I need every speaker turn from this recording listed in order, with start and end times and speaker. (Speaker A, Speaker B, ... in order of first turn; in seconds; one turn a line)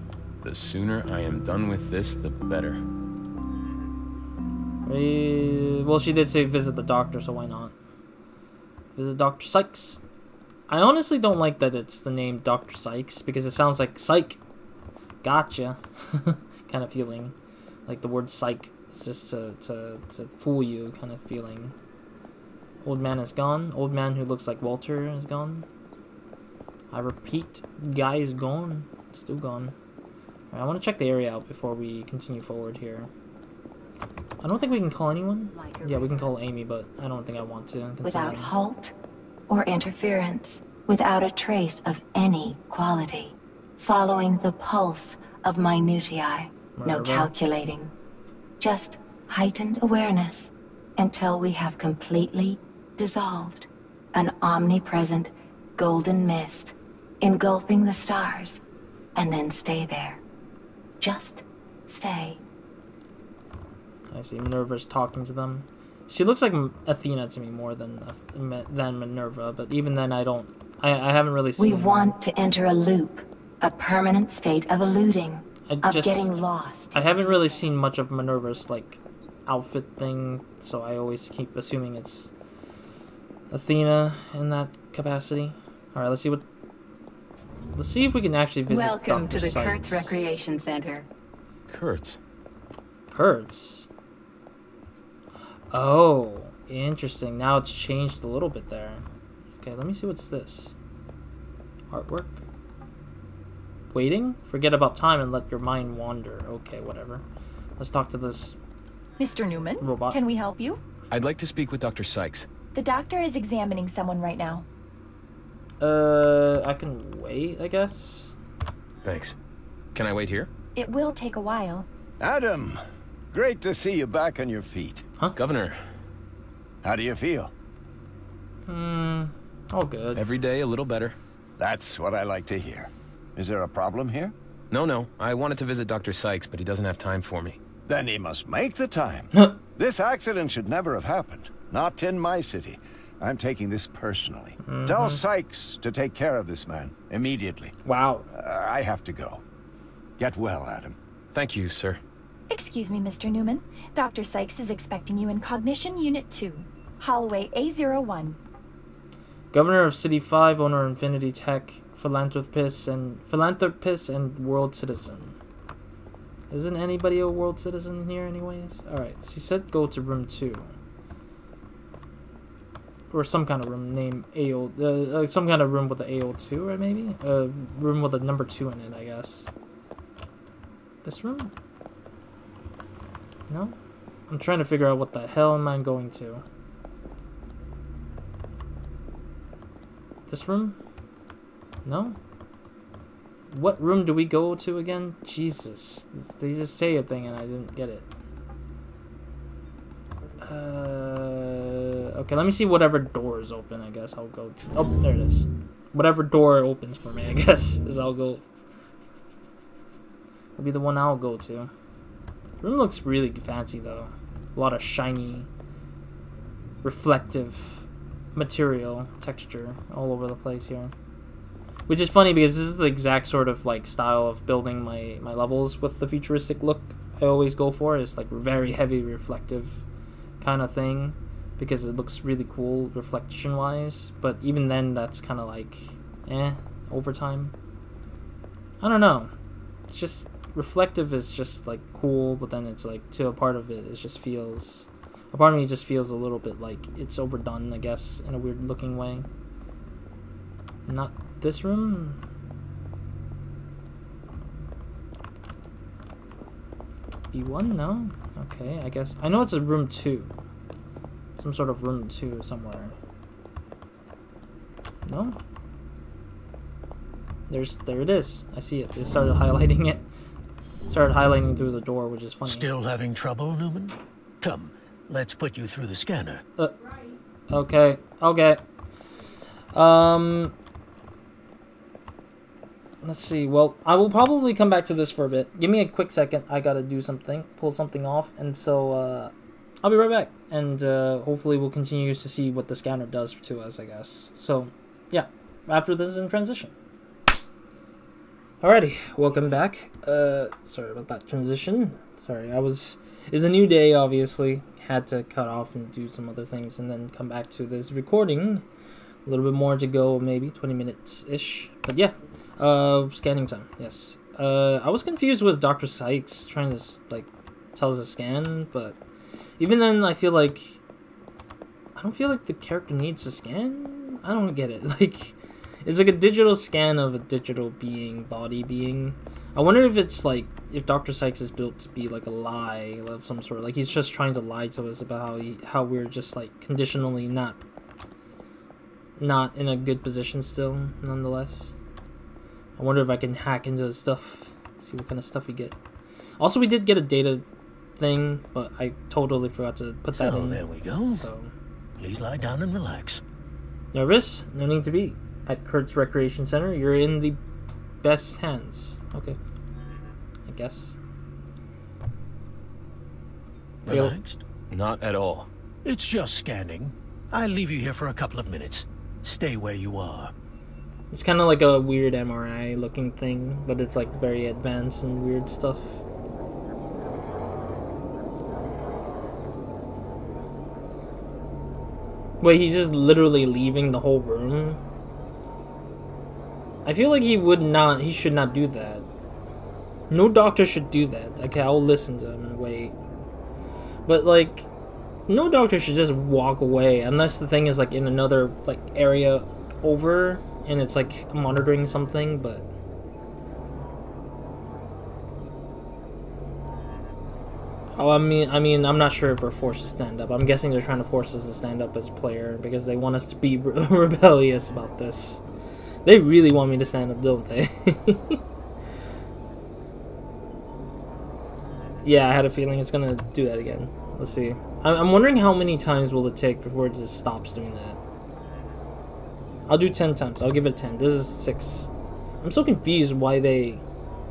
Speaker A: 0.4-2.8
Speaker B: 4.8-7.8
Speaker B: 9.0-10.0
Speaker B: 10.7-14.4
Speaker B: 15.2-17.4
Speaker B: 17.9-21.7
Speaker B: 22.8-25.7
Speaker B: 26.9-29.8
Speaker B: 30.5-33.1
Speaker B: 34.4-38.5
Speaker C: 35.5-36.2
Speaker C: 38.0-38.9
Speaker C: 39.5-47.9
Speaker B: 46.8-47.3
Speaker C: 48.6-58.6
Speaker C: 59.1-60.2
Speaker C: 61.0-62.4
Speaker B: 64.1-72.1
Speaker C: 71.6-77.7
Speaker B: 75.7-76.3
Speaker B: 76.9-82.3
Speaker B: 83.5-86.4
Speaker B: 87.8-90.4
Speaker C: 88.7-91.1
Speaker A: 91.7-92.2
Speaker B: 93.1-93.9
Speaker B: 95.7-99.0
Speaker B: 99.6-100.8
Speaker B: 101.9-102.4
Speaker B: 103.9-107.2
Speaker B: 107.8-108.6
Speaker D: 109.2-110.8
Speaker B: 109.8-110.2
Speaker A: 111.1-112.5
Speaker D: 112.7-114.7
Speaker B: 115.8-118.3
Speaker A: 119.0-119.4
Speaker A: 120.0-120.5
Speaker D: 120.8-121.9
Speaker E: 122.2-122.8
Speaker E: 123.3-125.1
Speaker A: 125.3-125.8
Speaker E: 126.8-127.5
Speaker B: 128.7-130.2
Speaker A: 130.2-131.2
Speaker E: 131.6-134.3
Speaker A: 134.7-137.6
Speaker E: 137.9-147.7
Speaker B: 144.6-145.2
Speaker B: 147.8-148.3
Speaker E: 148.3-149.4
Speaker E: 150.2-151.0
Speaker A: 151.3-152.0
Speaker D: 152.5-158.4
Speaker B: 159.5-165.4
Speaker B: 166.5-170.7
Speaker B: 173.1-179.5
Speaker B: 181.0-181.5
Speaker B: 183.5-183.8
Speaker B: 184.3-186.4
Speaker B: 190.3-190.8
Speaker B: 191.8-192.2
Speaker B: 193.5-198.1
Speaker B: 200.4-208.4
Speaker B: 210.6-211.7
Speaker B: 212.6-215.5
Speaker B: 216.8-220.9
Speaker B: 221.9-229.8
Speaker B: 230.4-237.5
Speaker B: 238.8-239.3
Speaker B: 239.9-249.3
Speaker B: 250.9-252.2
Speaker B: 257.3-260.3
Speaker B: 261.4-263.0
Speaker B: 265.1-265.4
Speaker B: 267.5-270.1
Speaker B: 270.9-272.7
Speaker F: 272.4-276.4
Speaker B: 277.5-278.6
Speaker B: 279.7-280.5
Speaker B: 283.0-296.7
Speaker B: 298.6-308.6
Speaker B: 309.3-319.0
Speaker B: 319.6-320.8
Speaker B: 322.0-337.6
Speaker B: 339.2-341.7
Speaker B: 342.8-345.8
Speaker B: 346.4-347.4
Speaker B: 348.0-351.5
Speaker F: 350.2-351.2
Speaker F: 352.0-353.2
Speaker B: 353.9-357.4
Speaker B: 358.0-359.4
Speaker B: 360.5-361.0
Speaker F: 363.9-364.4
Speaker B: 363.9-364.2
Speaker A: 364.7-365.5
Speaker F: 365.9-370.3
Speaker B: 371.1-376.0
Speaker B: 382.4-384.8
Speaker B: 386.9-389.1
Speaker B: 390.1-393.0
Speaker B: 394.1-394.7
Speaker B: 395.3-402.7
Speaker B: 408.0-415.4
Speaker B: 416.1-418.4
Speaker B: 422.0-428.0
Speaker B: 429.7-431.9
Speaker B: 432.4-433.8